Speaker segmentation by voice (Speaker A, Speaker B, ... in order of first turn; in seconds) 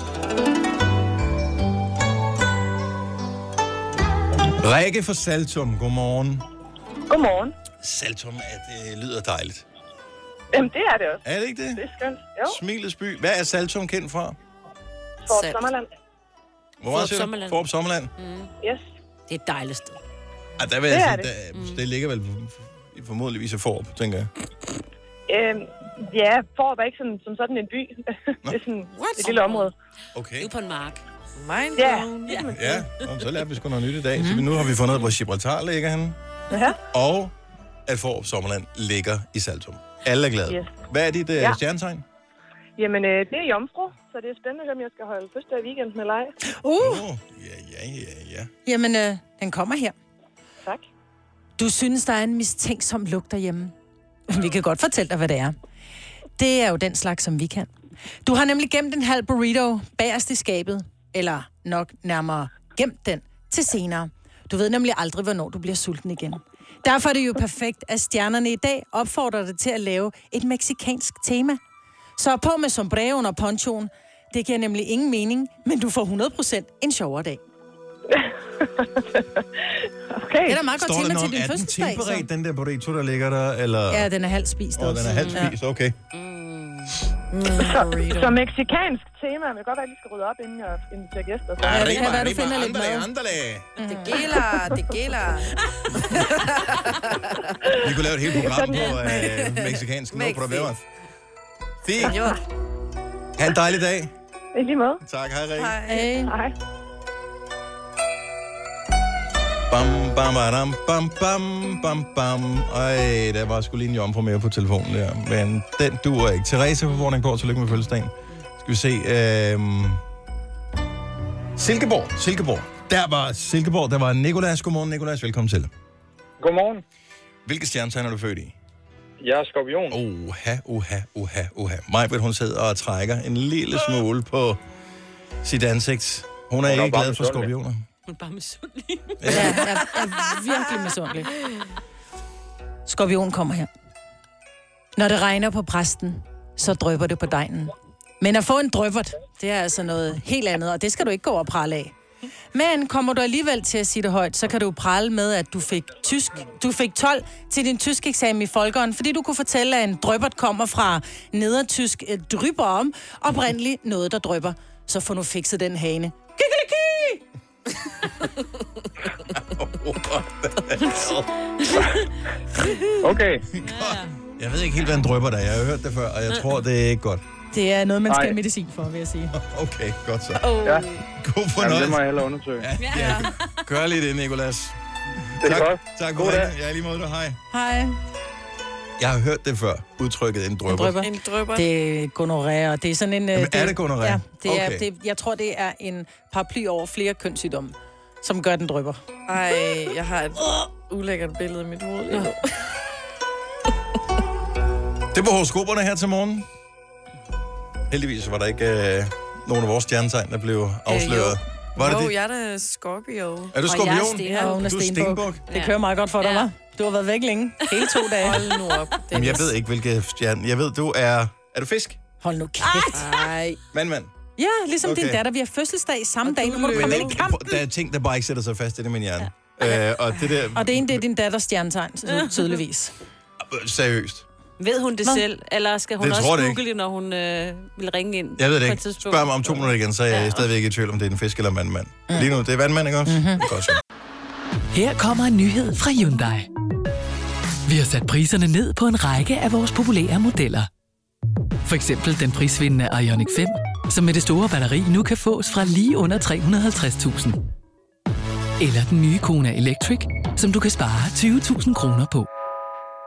Speaker A: 4.6-6.5, 7.8-9.7, 11.2-11.8, 12.4-14.4, 16.8-18.1, 20.6-24.3, 30.1-30.5, 32.5-36.2, 36.9-37.3, 37.9-42.0, 46.8-48.5, 80.7-84.1, 84.8-86.0, 91.6-93.7, 97.8-100.8, 101.8-102.2, 103.4-104.1, 105.0-105.8, 109.7-120.0, 121.6-125.7, 127.5-128.6, 129.9-134.6, 135.4-137.8, 139.2-139.7, 169.3-171.3, 173.6-177.2, 179.3-180.4, 181.2-182.1, 182.6-184.8, 185.4-187.4, 189.0-191.0, 193.3-194.8, 205.1-206.5, 207.9-212.1, 213.5-215.4, 219.1-222.0, 223.7-224.1, 224.8-225.2, 226.7-231.0, 233.4-234.2, 236.0-236.6, 238.4-243.8
Speaker B: 7.1-7.5, 10.5-11.2, 11.8-12.6, 15.3-15.9, 18.6-18.9, 20.9-21.3, 25.3-29.7, 31.8-32.1, 36.5-36.8, 40.5-40.8, 42.8-46.3, 78.1-80.6, 87.6-92.1, 104.5-105.0, 106.2-106.5
Speaker C: 15.3-15.6, 31.4-32.8, 87.3-88.4, 93.9-95.5, 96.2-97.5, 99.0-100.7, 102.0-102.4, 105.6-106.1, 182.9-183.2, 191.0-191.7, 199.3-202.5, 211.8-213.6, 218.2-219.5, 222.9-223.6, 226.2-227.1
Speaker D: 16.9-17.6, 18.2-18.5, 19.3-20.0, 29.0-29.7, 30.4-31.0, 85.1-85.5, 86.1-87.0, 138.1-139.8, 171.6-172.1, 173.6-174.1, 180.4-181.0, 182.8-183.5, 213.7-214.6, 215.5-216.5, 217.7-218.1, 232.1-232.6, 234.6-240.5
Speaker E: 34.2-34.4, 46.5-47.0, 48.7-50.0, 51.6-53.7, 54.3-55.5, 56.4-57.7, 58.2-71.6, 72.2-77.4, 80.5-82.3, 83.9-85.5, 91.7-93.1, 93.8-94.2, 105.9-106.3, 139.3-141.3, 142.9-143.7, 145.0-151.9, 152.5-167.2, 177.5-179.3, 187.5-188.0, 190.7-199.0, 214.3-218.4, 222.2-223.1, 224.4-227.6, 230.6-232.9, 243.1-243.4
Speaker F: 126.4-126.8, 129.2-130.0, 136.6-137.5, 173.0-173.4, 178.1-178.4, 181.6-182.7, 185.4-186.5
Speaker G: 244.7-246.5, 247.7-250.7, 251.7-257.4, 258.6-262.3